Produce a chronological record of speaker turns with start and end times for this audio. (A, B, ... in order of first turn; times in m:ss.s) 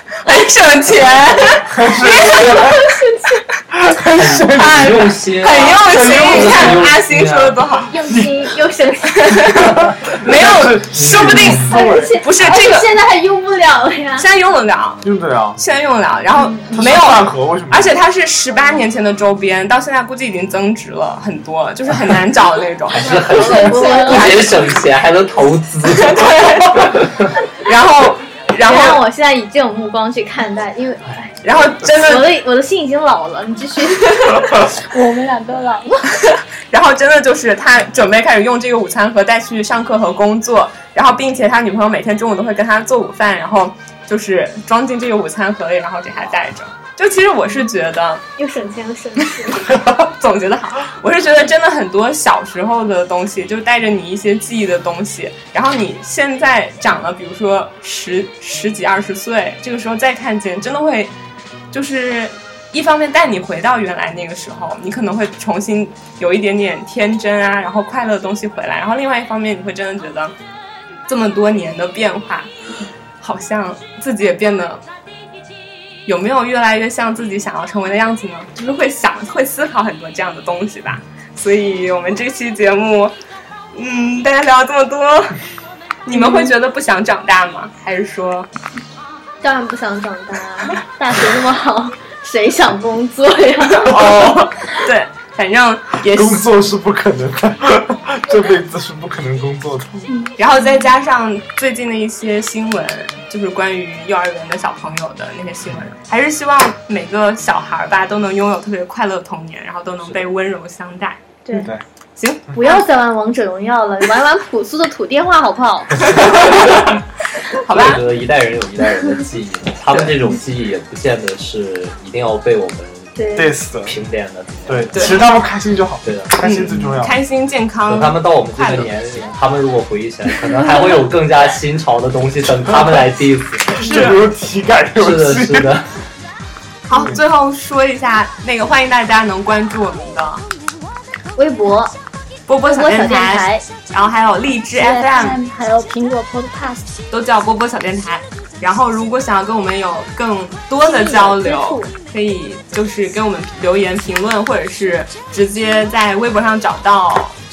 0:00.2-0:02.7 A
0:01.6-0:02.7 B
0:02.5-0:03.4 C
0:03.7-0:06.9 B
0:04.1-0:07.6 D
0:04.5-0:07.9 A
0:07.9-0:09.4 C
0:09.1-0:12.9 A
0:09.4-0:12.2 B
0:11.0-0:11.6 D
0:11.5-0:14.3 C
0:14.2-0:15.0 A
0:15.0-0:15.6 B
0:15.6-0:24.5 A
0:16.6-0:17.9 B
0:22.9-0:27.4 D
0:23.0-0:24.4 C
0:23.3-0:24.3 E
0:25.9-0:27.0 A
0:27.6-0:29.0 A
0:28.6-0:34.4 C
0:31.4-0:32.4 A
0:34.9-0:36.0 E
0:36.7-0:48.2 A
0:48.4-0:49.8 C
0:50.1-1:01.1 A
1:01.7-1:10.3 A
1:11.1-1:12.5 A
1:13.2-1:14.8 A
1:16.0-1:23.2 A
1:23.7-1:25.4 A
1:26.0-1:28.5 A
1:26.1-1:26.4 C
1:29.4-1:34.4 C
1:33.7-1:36.5 A
1:34.0-1:34.3 B
1:36.0-1:40.1 B
1:40.4-1:51.2 A
1:51.4-1:51.7 C
1:51.5-1:51.8 B
1:52.2-1:52.8 A
1:52.6-1:56.6 C
1:56.1-1:56.9 A
1:57.5-1:58.0 A
1:57.7-2:03.2 D
2:03.1-2:03.5 C
2:03.3-2:04.0 B
2:03.8-2:05.2 D
2:04.7-2:07.2 B
2:04.9-2:05.3 A
2:06.0-2:06.3 D
2:06.4-2:08.9 A
2:07.9-2:14.1 D
2:13.7-2:15.8 B
2:13.8-2:14.2 A
2:15.0-2:15.9 D
2:16.9-2:20.4 A
2:16.9-2:17.2 B
2:21.3-2:21.9 C
2:22.5-2:25.4 A
2:22.6-2:23.6 C
2:24.7-2:26.9 E
2:27.1-2:37.4 A
2:30.8-2:31.9 C